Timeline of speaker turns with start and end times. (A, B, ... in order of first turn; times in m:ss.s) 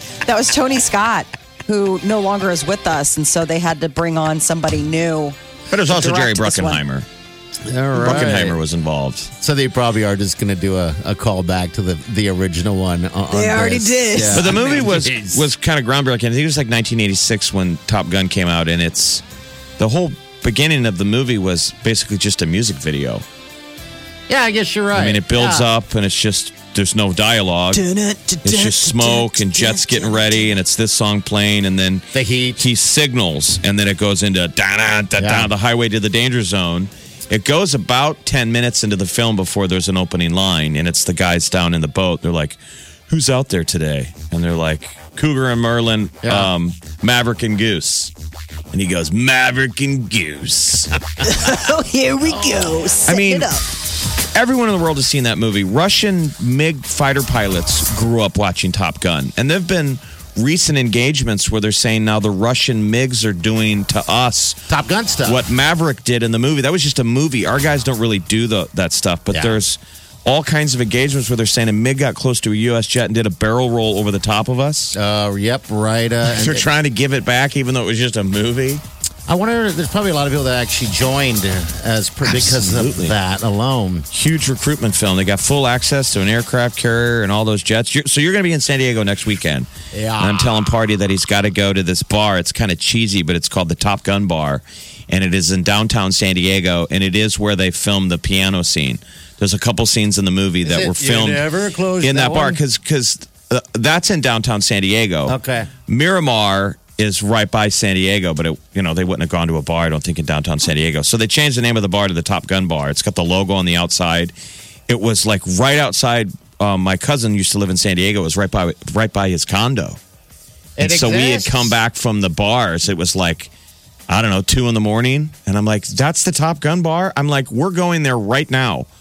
0:00.2-0:06.8 A
0:05.7-0:07.1 B
0:07.6-0:08.6 C
0:08.0-0:09.3 B
0:09.4-0:15.5 C
0:13.3-0:14.6 A
0:14.3-0:19.2 B
0:19.8-0:23.2 B
0:24.3-0:25.7 C
0:24.9-0:27.8 B
0:27.7-0:30.5 A
0:28.4-0:32.1 B
0:32.1-0:32.6 C
0:32.6-0:42.6 B
0:35.2-0:35.5 C
0:43.1-0:48.1 B
0:46.2-0:46.5 C
0:48.7-0:51.0 B
0:51.2-0:53.6 A
0:52.3-0:52.7 C
0:53.1-0:53.6 B
0:54.3-1:04.6 B
1:04.7-1:05.4 C
1:05.3-1:15.0 B
1:09.3-1:09.6 C
1:14.9-1:16.7 C
1:16.3-1:18.8 B
1:19.3-1:24.1 C
1:22.2-1:23.2 B
1:24.1-1:41.5 B
1:29.9-1:30.8 C
1:40.6-1:42.6 C
1:42.0-1:54.3 B
1:45.3-1:45.7 C
1:54.9-2:00.0 B
2:00.8-2:01.7 C
2:00.8-2:03.5 B
2:04.1-2:08.9 B